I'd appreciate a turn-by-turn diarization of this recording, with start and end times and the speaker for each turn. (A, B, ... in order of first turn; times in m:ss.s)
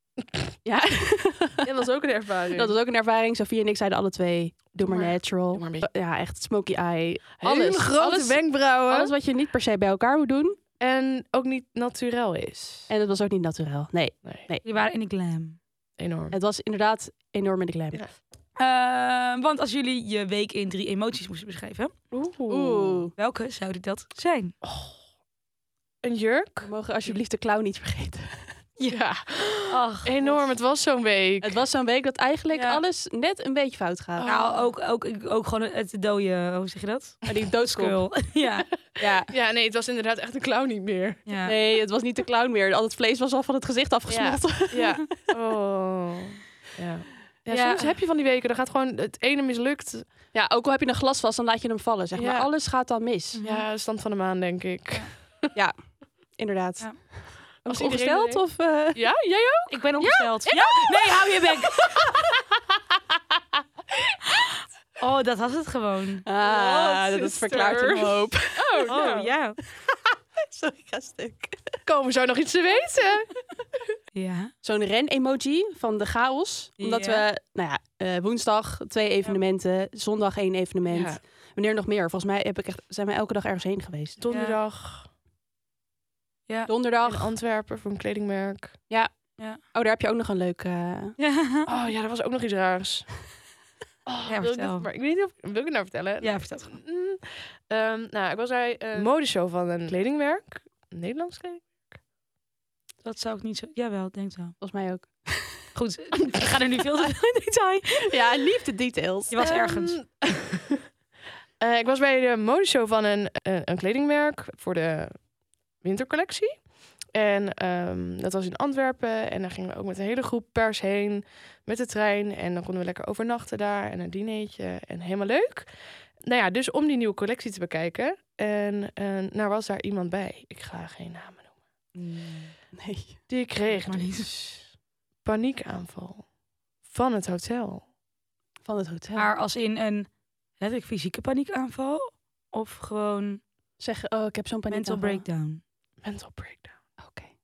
0:00.6-0:01.7 A
0:01.6-0:02.7 B
0:02.5-0:10.6 A
0:04.8-0:05.9 B
0:07.4-0:09.1 B
0:10.8-0:12.9 B
0:12.9-0:14.6 A
0:14.2-0:14.5 B
0:14.6-0:15.6 C
0:16.0-0:16.4 B
0:16.3-0:18.0 A
0:18.6-0:21.9 C
0:22.1-0:23.0 B
0:22.5-0:23.1 A
0:23.2-0:24.5 C
0:24.6-0:25.0 B
0:26.0-0:26.7 B
0:26.6-0:28.6 A
0:28.9-0:31.6 B
0:29.7-0:30.4 C
0:31.4-0:34.3 A
0:34.2-0:34.6 B
0:34.2-0:38.7 C
0:37.3-0:38.0 A
0:39.0-0:39.3 A
0:39.0-0:41.2 B
0:41.2-0:41.6 C
0:41.4-0:45.1 A
0:44.1-0:50.1 B
0:47.5-0:47.9 C
0:50.3-0:53.4 A
0:52.1-0:52.5 B
0:53.3-0:53.6 C
0:53.4-0:55.5 B
0:55.5-0:59.0 A
0:57.6-1:00.5 B
0:59.7-1:01.7 C
1:00.0-1:01.2 A
1:05.0-1:06.2 C
1:06.2-1:08.9 A
1:06.4-1:09.3 B
1:08.9-1:09.6 C
1:10.5-1:11.8 A
1:11.8-1:13.3 B
1:14.1-1:14.5 C
1:14.6-1:24.2 A
1:16.8-1:17.2 C
1:20.9-1:21.2 B
1:24.2-1:25.1 B
1:24.3-1:24.6 C
1:26.7-1:27.3 A
1:27.0-1:28.8 B
1:28.9-1:31.2 A
1:31.2-1:31.7 C
1:31.6-1:33.1 B
1:34.0-1:42.0 B
1:34.3-1:34.8 C
1:36.2-1:36.8 C
1:43.0-1:44.6 C
1:44.6-1:45.6 A
1:45.7-1:48.1 C
1:48.1-1:49.3 A
1:49.3-1:50.0 C
1:49.4-1:50.8 B
1:51.6-2:11.5 B
2:11.9-2:12.5 C
2:12.8-2:13.2 A
2:13.3-2:14.7 B
2:13.8-2:14.3 C
2:15.2-2:16.3 B
2:16.8-2:17.8 B
2:18.6-2:19.3 A
2:19.1-2:23.4 C
2:23.8-2:25.2 A
2:24.7-2:25.6 C
2:26.0-2:26.8 B
2:27.0-2:27.3 A